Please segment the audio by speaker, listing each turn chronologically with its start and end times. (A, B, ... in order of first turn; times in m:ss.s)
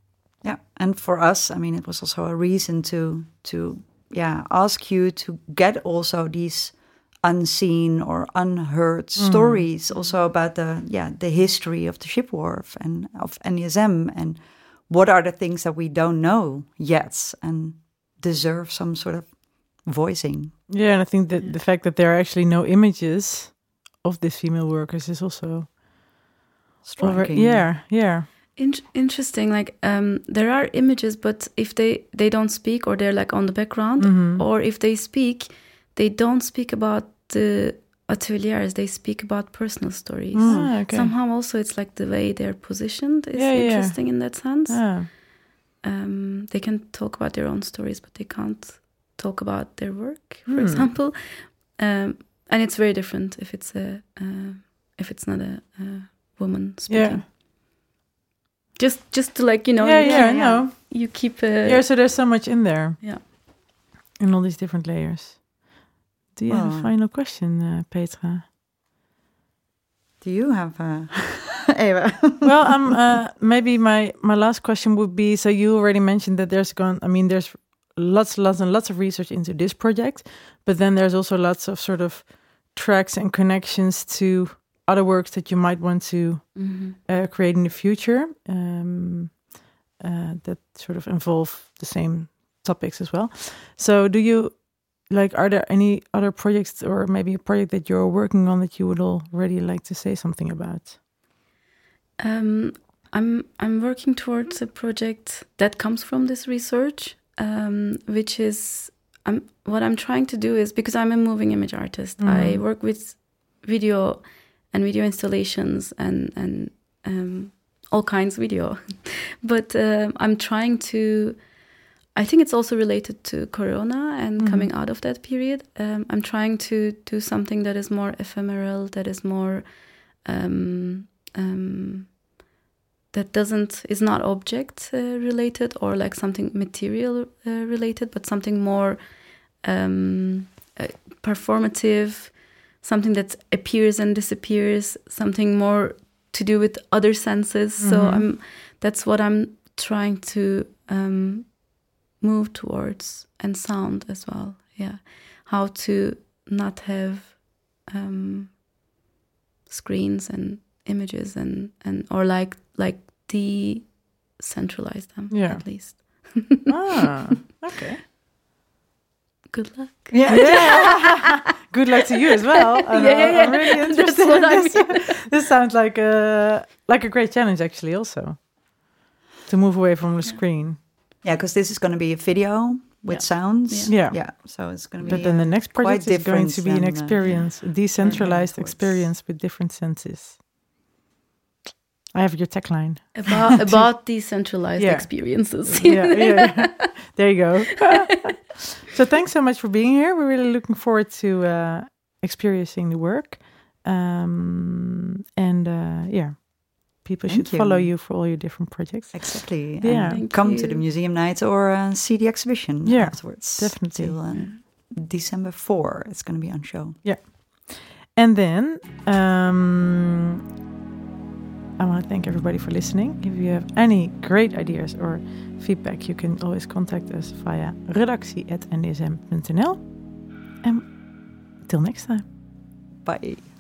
0:00.4-0:20.7 A
0:09.2-0:09.6 B
0:09.9-0:10.2 C
0:20.7-0:26.3 B
0:26.8-0:27.7 A
0:27.0-0:28.3 B
0:28.6-0:57.3 C
0:34.0-0:34.4 B
0:40.3-0:41.1 B
0:40.4-0:40.7 A
0:43.3-0:45.1 B
0:50.5-0:50.9 B
0:56.9-0:57.2 B
0:58.8-1:01.9 C
0:59.8-1:08.5 B
1:00.0-1:00.4 A
1:06.5-1:06.9 A
1:10.2-1:12.8 A
1:12.4-1:41.0 B
1:26.6-1:27.0 C
1:42.2-2:12.3 C
1:52.2-1:52.6 B
2:04.4-2:04.7 B
2:13.1-2:38.6 C
2:27.8-2:28.3 B
2:39.7-2:46.7 C
2:45.3-2:48.0 B
2:49.5-2:51.4 C
2:50.1-2:51.2 A
2:50.3-3:00.8 B
2:52.9-2:55.3 C
3:01.2-3:09.1 A
3:03.1-3:04.0 C
3:03.9-3:10.4 B
3:07.2-3:09.0 C
3:12.1-3:14.1 B
3:13.2-3:17.2 C
3:14.8-3:30.2 B
3:27.3-3:28.0 A
3:29.1-3:37.0 A
3:30.0-3:30.8 C
3:32.8-3:34.2 B
3:34.3-3:34.6 C
3:37.0-3:40.4 B
3:41.8-3:52.2 B
3:53.0-3:53.5 A